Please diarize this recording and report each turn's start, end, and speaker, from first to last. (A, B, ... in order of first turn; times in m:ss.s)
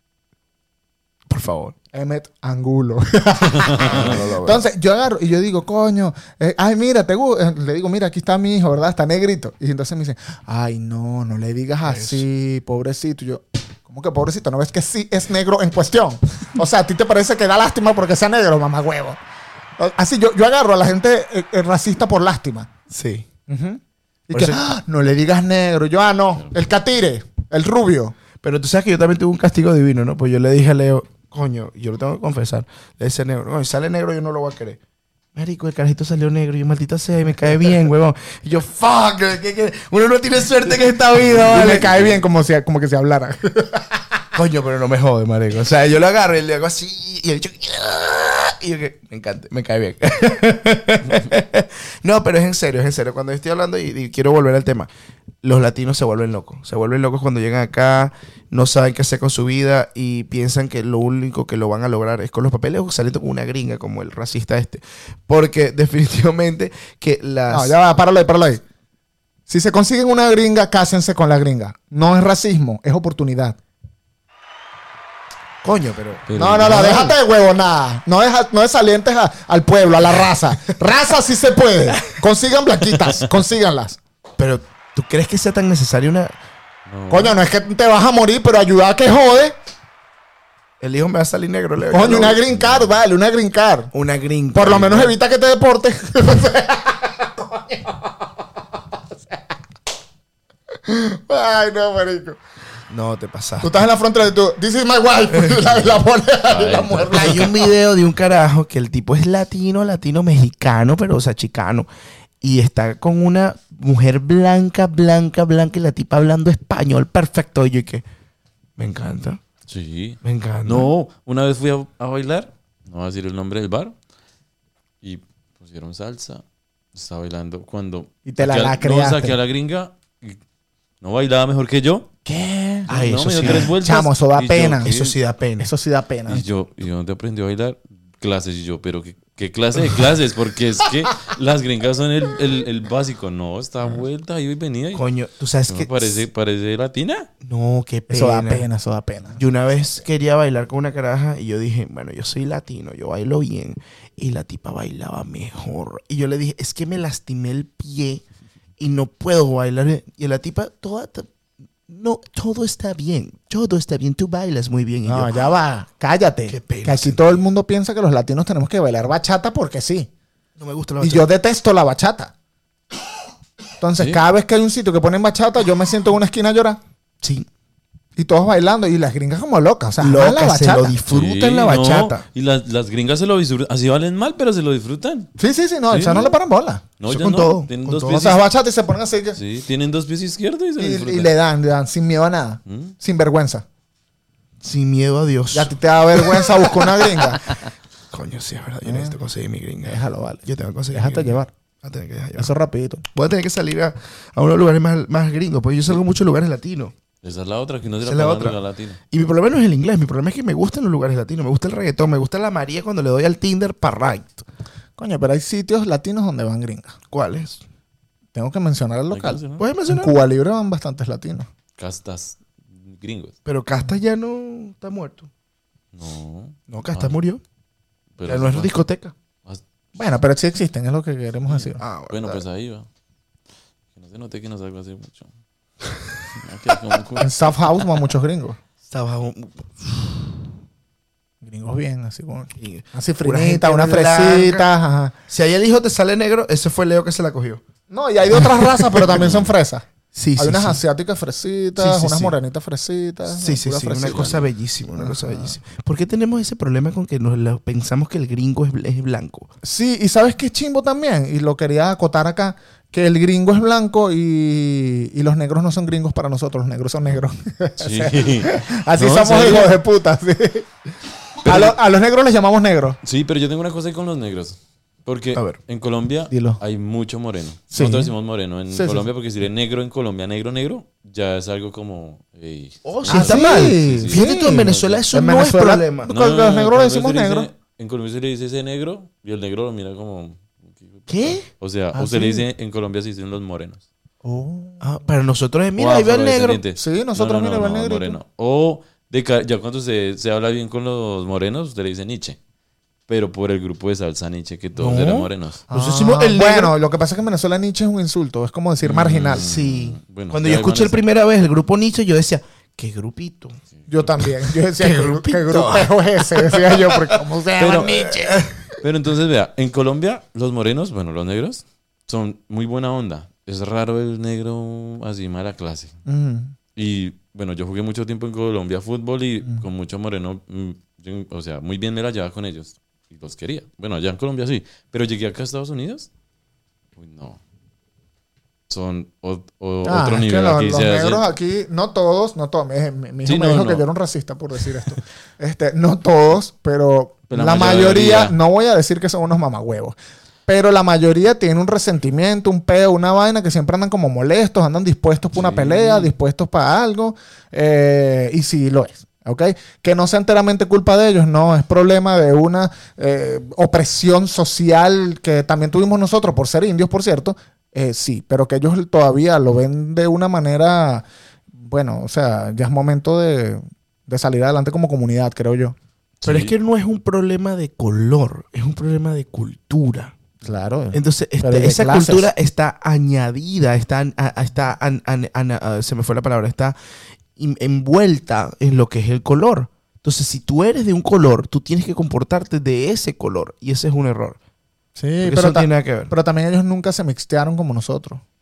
0:01.3-0:01.7 A
0:01.9-0:19.2 B
0:03.4-0:04.1 C
0:03.8-0:04.6 A
0:11.8-0:12.2 A
0:19.8-0:22.7 B
0:22.9-0:23.3 A
0:23.5-0:28.2 B
0:24.3-0:24.6 A
0:28.4-0:34.8 A
0:35.3-0:42.2 A
0:41.2-0:44.2 B
0:44.3-0:54.9 A
0:55.4-1:07.7 A
1:07.5-1:08.6 B
1:09.5-1:13.6 B
1:15.6-1:17.2 A
1:16.3-1:17.1 C
1:16.4-1:24.0 B
1:24.4-1:26.3 A
1:26.9-1:27.4 C
1:27.1-1:29.5 B
1:30.8-1:32.4 A
1:31.9-1:33.9 B
1:32.5-1:33.0 C
1:33.9-1:35.2 A
1:34.5-1:38.3 B
1:40.8-1:42.4 B
1:42.9-1:43.9 A
1:43.6-1:47.7 B
1:45.3-1:45.8 A
1:46.5-1:47.4 C
1:47.1-1:51.9 A
1:52.4-1:58.0 A
1:58.8-1:59.4 A
1:59.7-2:04.0 C
2:00.2-2:00.9 A
2:05.0-2:10.4 C
2:08.2-2:09.4 B
2:11.0-2:12.1 C
2:12.2-2:15.0 B
2:12.9-2:13.7 A
2:12.9-2:15.1 C
2:14.8-2:15.7 A
2:15.6-2:16.4 B
2:16.3-2:25.0 C
2:24.9-2:26.2 A
2:25.7-2:27.3 C
2:27.4-2:28.6 A
2:28.1-2:29.4 B
2:29.4-2:38.2 A
2:38.8-2:41.3 A
2:41.9-2:45.4 A
2:45.0-2:50.1 B
2:46.5-2:47.2 A
2:50.6-2:51.3 A
2:51.0-2:52.3 B
2:53.8-2:56.8 B
2:54.0-2:54.2 C
2:57.2-2:57.5 A
2:58.2-3:01.0 B
3:00.0-3:02.2 A
3:01.1-3:05.3 C
3:05.4-3:06.8 B
3:05.9-3:06.3 C
3:07.0-3:08.4 C
3:07.1-3:08.2 A
3:08.0-3:09.4 B
3:09.3-3:11.3 C
3:10.8-3:13.6 B
3:12.6-3:12.9 C
3:14.6-3:17.6 A
3:15.5-3:17.4 B
3:18.1-3:22.5 A
3:18.8-3:19.2 B
3:19.8-3:21.5 B
3:22.4-3:23.0 B
3:23.1-3:26.9 A
3:27.2-3:29.0 C
3:28.0-3:28.6 A
3:29.1-3:34.4 A
3:35.0-3:36.9 B
3:37.1-3:37.6 A
3:38.3-3:41.5 B
3:39.1-3:39.6 C
3:39.6-3:40.2 A
3:41.8-3:43.3 C
3:43.4-3:45.3 A
3:45.9-3:47.2 C
3:46.7-3:47.4 A
3:48.2-3:48.8 C
3:48.3-3:49.1 A
3:49.9-3:51.8 B
3:51.5-3:52.9 C
3:51.7-3:52.4 A
3:53.9-3:55.3 C
3:56.4-3:57.3 C
3:57.2-3:58.6 B
3:58.9-4:00.5 A
4:01.4-4:05.1 B
4:02.6-4:04.6 A
4:05.3-4:07.6 A
4:07.9-4:14.4 B
4:08.3-4:09.2 A
4:09.1-4:09.5 C
4:10.1-4:10.8 A
4:11.8-4:12.4 A
4:13.3-4:19.5 A
4:14.0-4:14.4 C
4:14.9-4:15.5 B
4:19.6-4:30.7 B
4:27.8-4:29.8 C
4:31.4-4:31.8 C
4:31.4-4:33.0 B
4:33.0-4:45.0 C
4:36.3-4:36.6 B
4:37.7-4:38.1 B
4:38.7-4:39.1 B
4:42.8-4:46.1 A
4:43.1-4:47.5 B
4:46.1-4:53.8 C
4:51.1-4:51.5 A
4:51.9-4:52.4 B
4:54.2-4:54.8 B
4:54.8-4:56.6 A
4:55.8-5:02.4 C
4:56.8-4:58.2 B
5:03.1-5:05.6 C
5:04.8-5:06.7 A
5:05.7-5:09.5 B
5:08.8-5:11.0 C
5:09.3-5:13.6 A
5:13.9-5:18.4 B
5:14.2-5:17.2 A
5:17.6-5:18.0 C
5:17.8-5:18.6 A
5:18.8-5:26.0 C
5:26.0-5:26.5 B
5:26.7-5:36.1 C
5:37.0-5:37.4 C
5:38.7-5:41.2 C
5:39.8-5:50.0 B
5:43.2-5:43.8 C
5:47.3-5:48.3 C
5:50.5-6:11.0 B
5:55.3-5:56.1 C
6:11.6-6:15.8 B
6:16.2-6:16.5 C
6:16.2-6:20.1 A
6:20.4-6:22.3 B
6:20.9-6:26.8 A
6:27.4-6:34.4 A
6:35.0-6:38.2 B
6:35.2-6:36.1 A